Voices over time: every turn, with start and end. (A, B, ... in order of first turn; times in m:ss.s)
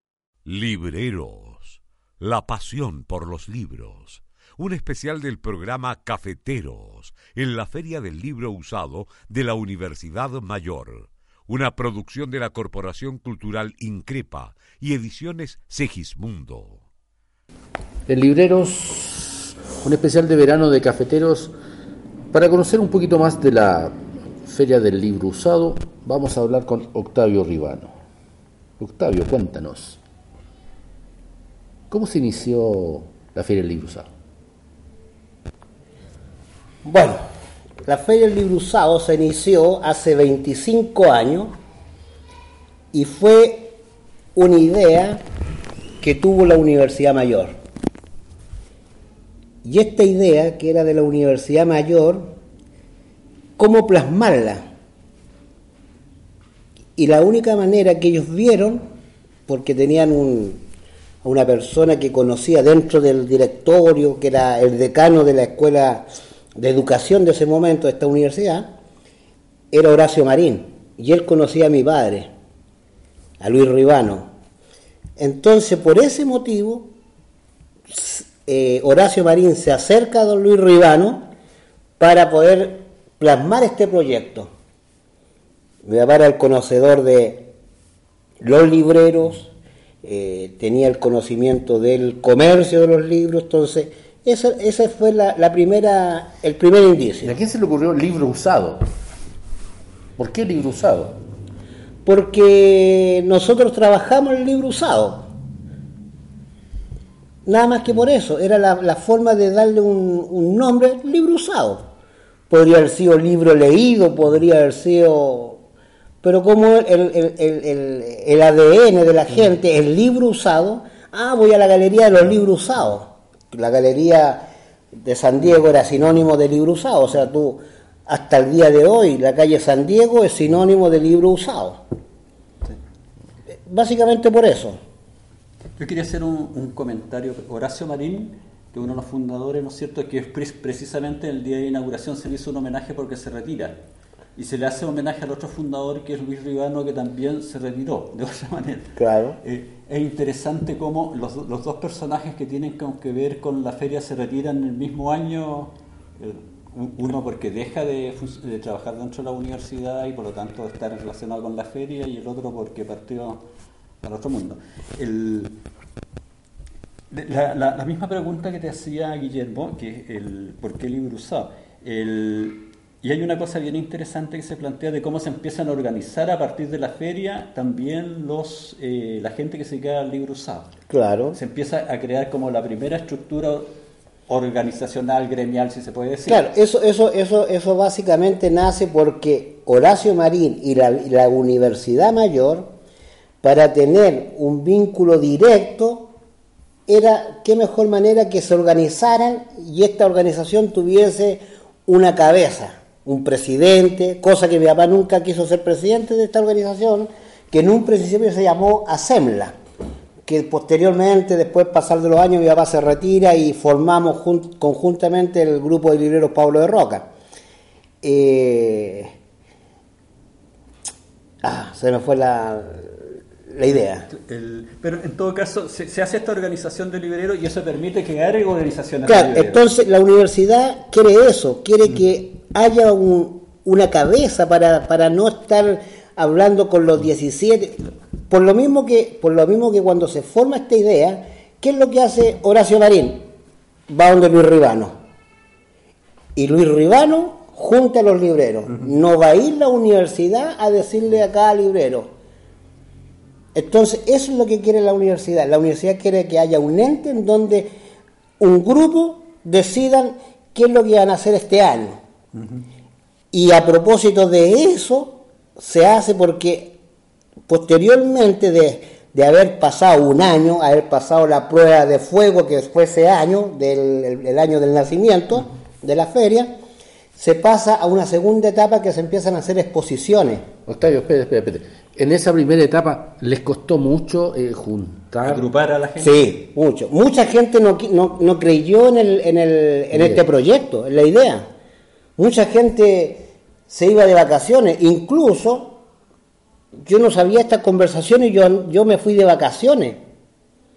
0:00.4-0:16.8 A
0:18.1-0:21.5 B
0:22.3-0:27.9 B
0:28.8-0:30.0 B
0:31.9-0:34.1 B
0:36.8-0:37.2 C
0:37.8-0:41.5 C
0:42.9-0:43.8 C
0:44.3-0:45.2 C
0:46.0-0:47.5 C
0:49.6-0:52.3 C
0:53.6-0:54.6 C
0:57.0-0:58.8 C
0:59.5-1:00.6 C
1:01.2-1:08.7 C
1:09.7-1:12.3 C
1:13.4-1:14.3 C
1:15.2-1:16.9 C
1:17.9-1:21.3 C
1:22.0-1:24.5 C
1:25.8-1:27.5 C
1:28.4-1:29.5 C
1:30.0-1:37.3 C
1:37.2-1:38.8 B
1:40.2-1:41.2 B
1:42.0-1:45.3 C
1:47.4-1:51.8 C
1:52.5-1:55.6 C
1:56.2-2:04.4 C
2:05.0-2:11.8 C
2:13.6-2:14.8 C
2:15.8-2:23.8 D
2:24.4-2:43.4 D
2:29.0-2:29.4 C
2:44.0-2:45.6 D
2:47.1-3:00.7 D
3:00.9-3:01.4 C
3:01.3-3:03.7 D
3:04.3-3:06.4 D
3:06.2-3:12.7 C
3:13.4-3:16.1 C
3:16.9-3:29.5 C
3:30.3-3:37.1 C
3:38.0-3:39.1 C
3:41.4-3:44.1 C
3:44.1-3:49.6 D
3:49.0-4:03.2 C
4:03.9-4:04.9 C
4:06.3-4:12.1 C
4:13.5-4:17.7 C
4:18.4-4:22.0 C
4:23.3-4:26.8 C
4:27.5-4:36.5 C
4:37.2-4:40.4 C
4:40.6-4:45.4 B
4:45.2-4:46.3 D
4:46.0-4:51.4 C
4:52.2-4:55.8 C
4:56.8-5:00.0 C